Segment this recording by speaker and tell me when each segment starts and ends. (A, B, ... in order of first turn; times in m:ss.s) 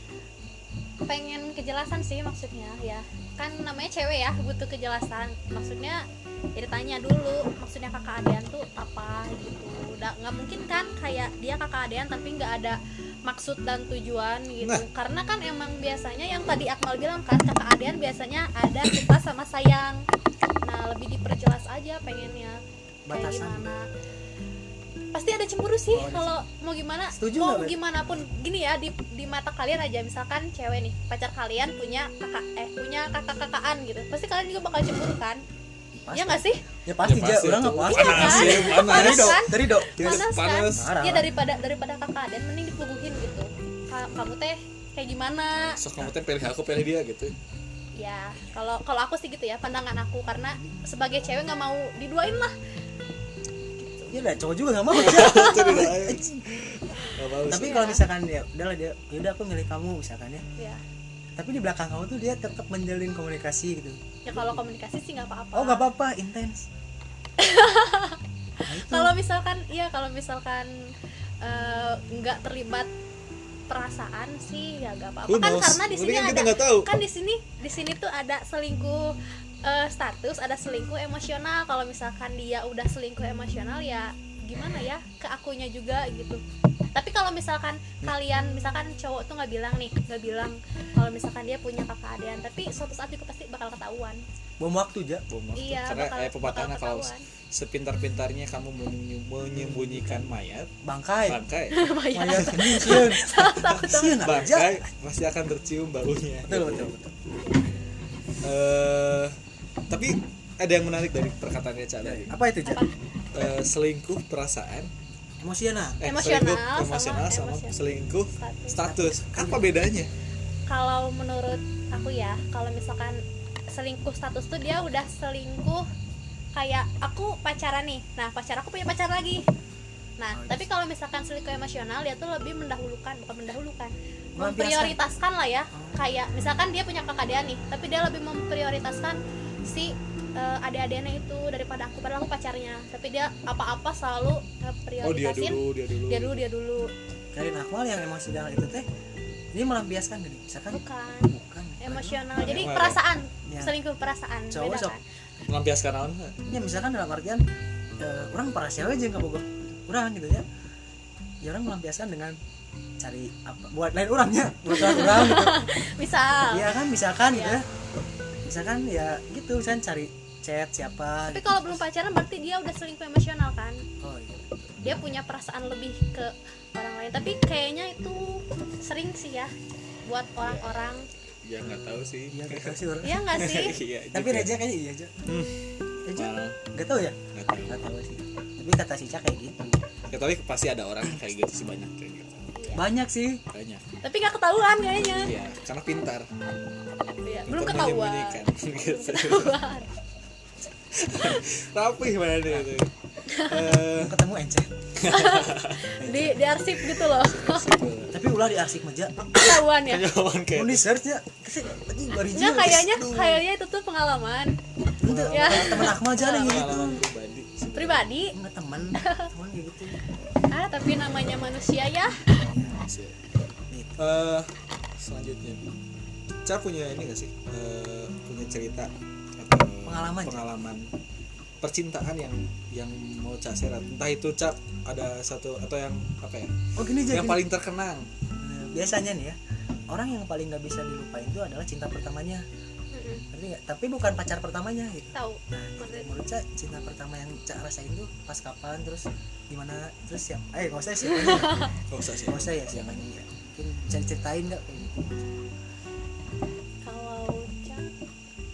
0:01.1-0:06.0 A
0:06.6-0:20.0 A
0:20.6-0:23.8 A
0:23.1-0:23.6 B
0:25.1-0:35.4 A
0:25.9-0:26.4 B
0:27.1-0:27.8 B
0:36.0-0:40.2 B
0:36.1-0:36.6 A
0:37.0-0:41.0 C
0:37.9-0:45.8 A
0:40.8-0:41.3 B
0:45.7-0:47.3 C
0:48.0-0:52.5 A
0:53.8-0:54.2 A
0:54.1-0:56.4 B
0:55.0-0:57.9 C
0:55.0-0:55.7 A
0:57.1-0:58.0 A
0:57.4-1:00.4 B
1:00.6-1:00.8 A
1:01.4-1:04.6 B
1:04.3-1:05.9 A
1:05.5-1:06.7 B
1:07.4-1:10.9 A
1:08.7-1:09.1 B
1:11.4-1:12.9 A
1:13.7-1:26.4 A
1:15.3-1:16.9 C
1:26.9-1:34.2 A
1:34.6-1:35.2 B
1:35.3-1:40.7 C
1:35.6-1:37.2 A
1:39.6-1:40.3 B
1:40.8-1:41.4 B
1:41.3-1:41.8 C
1:41.7-1:44.5 A
1:42.1-1:44.8 B
1:42.4-1:47.0 C
1:46.5-1:47.1 B
1:48.4-1:49.4 C
1:49.9-1:52.3 C
1:52.0-1:52.8 B
1:52.7-1:52.9 A
1:53.3-1:54.9 C
1:55.4-1:56.0 B
1:56.0-2:00.1 C
1:56.0-1:57.8 A
1:58.4-1:58.8 A
1:58.8-1:59.6 B
2:00.7-2:03.2 A
2:03.7-2:05.9 A
2:06.6-2:09.4 A
2:10.2-2:26.9 A
2:10.3-2:10.7 B
2:14.4-2:15.0 B
2:15.7-2:16.0 B
2:25.0-2:26.4 C
2:27.3-2:28.9 B
2:29.5-2:32.5 B
2:30.7-2:35.0 A
2:32.4-2:33.0 C
2:33.5-2:33.7 B
2:34.5-2:35.0 B
2:35.5-2:36.4 C
2:36.5-2:37.4 B
2:38.0-2:40.4 B
2:41.4-2:42.4 B
2:43.0-2:45.7 B
2:44.7-2:46.7 A
2:46.5-2:47.6 B
2:47.3-2:47.6 A
2:48.4-2:51.8 B
2:51.3-2:53.8 A
2:54.0-2:54.8 B
2:54.8-2:59.5 A
3:00.1-3:01.1 A
3:00.4-3:02.8 C
3:02.3-3:03.2 B
3:03.0-3:03.8 A
3:03.3-3:04.5 C
3:04.1-3:05.2 B
3:05.3-3:06.6 C
3:06.0-3:07.2 B
3:07.3-3:07.8 C
3:07.7-3:09.8 B
3:10.1-3:12.6 C
3:12.6-3:12.8 A
3:12.8-3:13.4 B
3:13.5-3:13.9 C
3:14.0-3:15.3 A
3:15.0-3:16.3 C
3:17.2-3:19.9 A
3:17.5-3:19.6 C
3:20.9-3:24.2 C
3:23.3-3:23.8 A
3:23.8-3:24.7 B
3:25.0-3:26.0 C
3:25.0-3:27.7 A
3:26.0-3:26.4 B
3:26.8-3:28.3 C
3:28.1-3:29.3 B
3:29.3-3:30.1 A
3:29.4-3:30.9 C
3:30.6-3:33.0 B
3:32.3-3:34.6 A
3:33.0-3:33.4 C
3:35.0-3:38.1 C
3:35.0-3:37.0 B
3:35.3-3:36.6 A
3:37.8-3:38.3 A
3:38.3-3:40.0 B
3:39.0-3:39.3 A
3:40.5-3:42.3 A
3:42.3-3:42.8 B
3:42.8-3:43.2 C
3:43.7-3:44.1 B
3:44.0-3:45.6 C
3:46.5-3:50.9 C
3:49.9-3:50.5 B
3:51.6-3:58.1 C
3:56.8-3:57.4 B
3:58.4-3:59.4 B
3:59.9-4:02.4 B
4:02.9-4:03.2 A
4:03.3-4:11.7 B
4:05.1-4:06.1 A
4:11.1-4:11.7 A
4:11.9-4:13.2 C
4:12.3-4:15.3 B
4:16.8-4:17.9 A